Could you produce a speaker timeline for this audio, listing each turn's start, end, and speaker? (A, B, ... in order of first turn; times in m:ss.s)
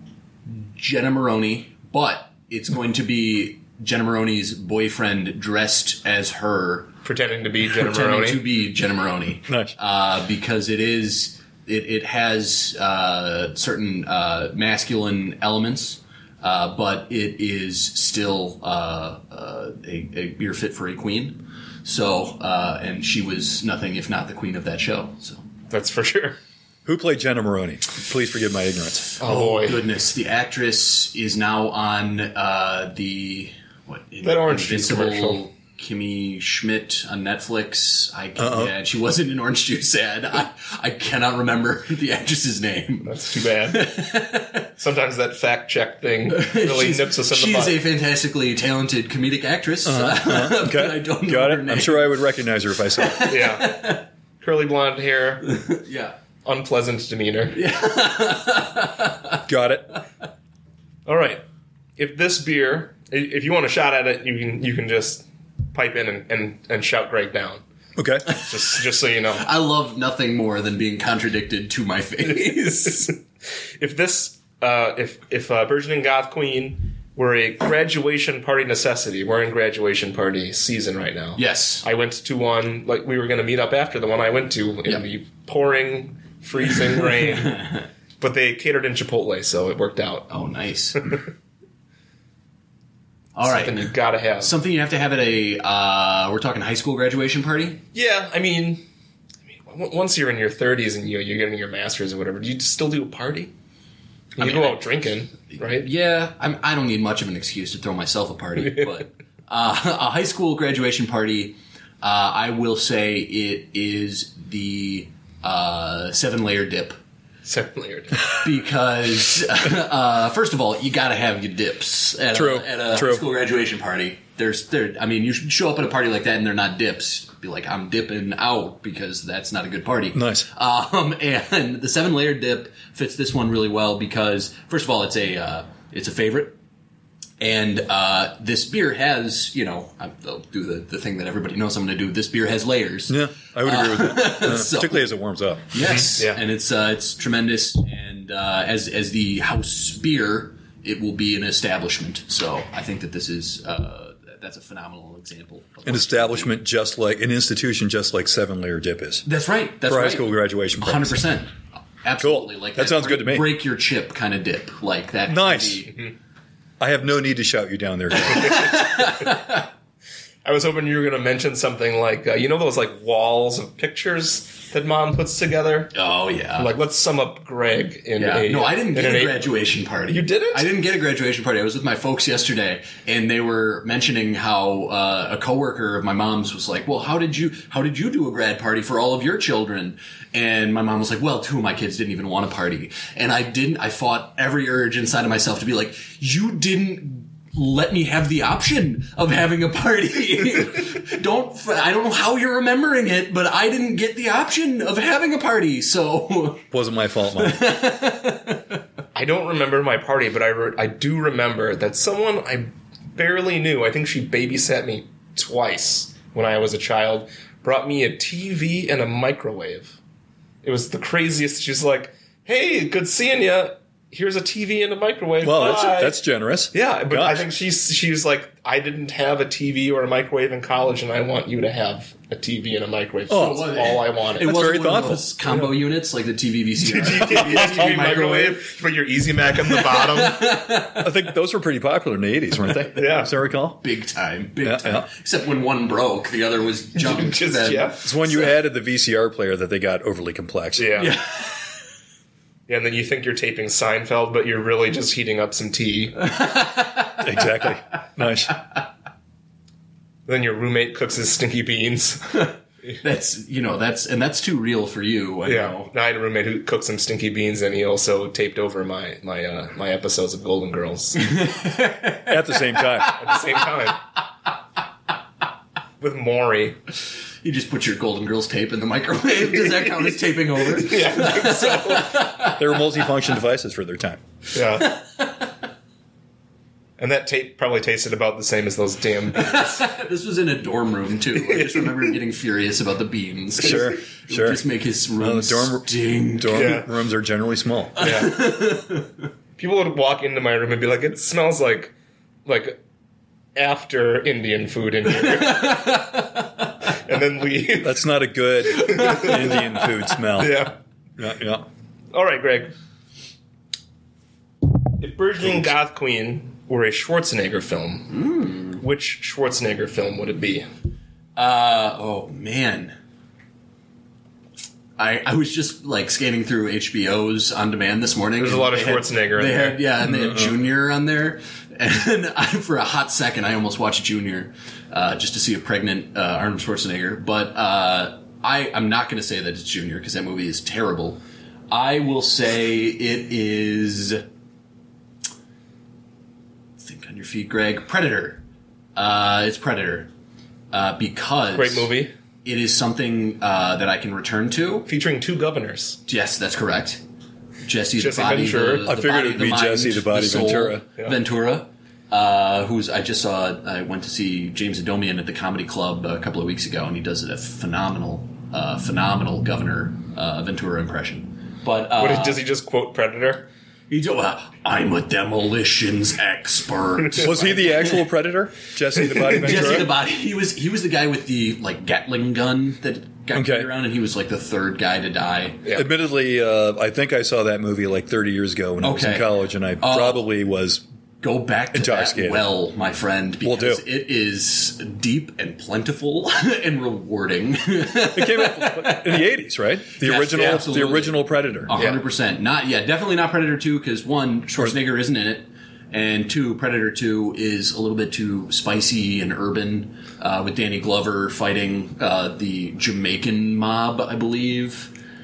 0:00.5-0:07.0 A
0:07.0-0:08.4 B
0:07.7-0:25.4 A
0:09.5-0:09.7 C
0:25.7-0:26.4 B
0:26.9-0:29.1 C
0:29.2-0:44.7 A
0:29.2-0:29.8 B
0:34.2-0:35.4 B
0:38.4-0:38.7 C
0:43.0-0:44.0 B
0:44.8-0:47.8 B
0:46.3-0:52.2 A
0:49.8-0:53.3 C
0:53.0-0:54.0 A
0:53.2-0:55.5 B
0:55.4-0:56.2 A
0:56.5-0:57.6 B
0:57.5-0:59.4 A
0:59.5-1:00.0 C
1:01.1-1:01.4 B
1:02.0-1:07.6 B
1:08.0-1:08.3 C
1:08.3-1:09.4 B
1:09.4-1:13.0 A
1:12.2-1:13.2 B
1:13.8-1:27.6 B
1:21.4-1:21.8 A
1:27.0-1:27.8 A
1:28.2-1:30.3 B
1:30.3-1:31.1 A
1:33.4-1:37.8 A
1:33.4-1:34.5 B
1:37.9-1:38.8 B
1:39.5-1:43.5 B
1:44.4-1:45.9 B
1:44.4-1:44.8 A
1:45.5-1:57.0 A
1:57.4-1:58.2 B
1:58.4-2:16.6 A
2:02.3-2:03.2 C
2:10.1-2:10.5 C
2:17.4-2:25.1 A
2:23.1-2:25.8 C
2:25.7-2:36.5 A
2:35.8-2:39.3 C
2:39.3-2:46.0 A
2:39.8-2:41.3 C
2:42.2-2:43.5 C
2:45.3-2:45.8 C
2:46.8-2:48.7 C
2:48.3-2:49.7 A
2:50.4-2:55.9 B
2:55.9-2:56.7 A
2:56.6-2:59.5 B
2:58.2-3:26.7 A
3:00.1-3:00.7 B
3:26.7-3:27.6 C
3:27.4-3:28.6 A
3:29.2-3:40.0 B
3:40.6-3:46.2 B
3:45.4-3:47.5 C
3:46.7-3:54.5 B
3:53.3-3:53.7 C
3:53.3-3:58.7 A
3:54.4-3:55.2 C
3:56.8-4:00.5 B
3:57.3-3:57.9 C
3:59.7-4:01.1 A
4:01.0-4:03.8 C
4:02.7-4:03.3 B
4:03.8-4:08.0 A
4:04.6-4:05.1 C
4:07.0-4:08.1 B
4:08.0-4:11.1 C
4:10.8-4:11.1 B
4:11.0-4:11.6 A
4:12.7-4:16.2 B
4:16.2-4:17.4 A
4:17.2-4:18.6 C
4:20.3-4:22.5 B
4:23.0-4:25.9 A
4:25.4-4:31.3 B
4:31.2-4:33.2 A
4:32.3-4:33.2 C
4:33.1-4:34.0 B
4:36.0-4:36.8 B
4:37.4-4:42.8 A
4:40.7-4:42.2 B
4:42.6-4:44.2 C
4:44.5-4:45.0 B
4:44.9-4:45.3 A
4:47.0-4:49.9 B
4:49.3-4:56.8 A
4:51.5-4:51.9 B
4:53.6-4:54.6 C
4:55.2-4:58.1 C
4:56.5-4:56.9 B
4:58.0-4:58.4 B
4:58.0-4:59.1 A
4:59.6-5:01.9 B
5:02.5-5:02.8 B
5:03.6-5:06.0 B
5:05.3-5:06.3 A
5:06.9-5:08.0 B
5:07.8-5:11.7 C
5:08.8-5:09.4 B
5:10.4-5:10.7 B
5:12.1-5:12.7 B
5:15.0-5:18.2 B
5:18.1-5:18.8 A
5:18.8-5:20.7 B
5:21.4-5:22.9 A
5:25.0-5:44.2 A
5:28.4-5:29.8 B
5:30.0-5:30.5 C
5:46.8-5:48.4 A
5:49.0-5:50.1 A
5:50.7-5:51.9 A
5:51.5-5:52.1 B
5:52.4-5:54.9 A
5:54.9-5:56.0 B
5:56.1-5:57.0 A
5:57.6-6:12.4 A
5:58.0-5:58.9 B
5:58.9-6:00.8 C
6:12.0-6:13.5 B
6:13.9-6:18.0 A
6:17.2-6:19.9 C
6:19.1-6:25.6 A
6:23.3-6:23.7 C
6:25.7-6:30.8 C
6:28.8-6:30.2 A
6:31.2-6:39.3 A
6:31.7-6:32.5 C
6:33.4-6:33.8 C
6:38.2-6:41.7 C
6:40.0-6:54.9 A
6:41.7-6:42.0 B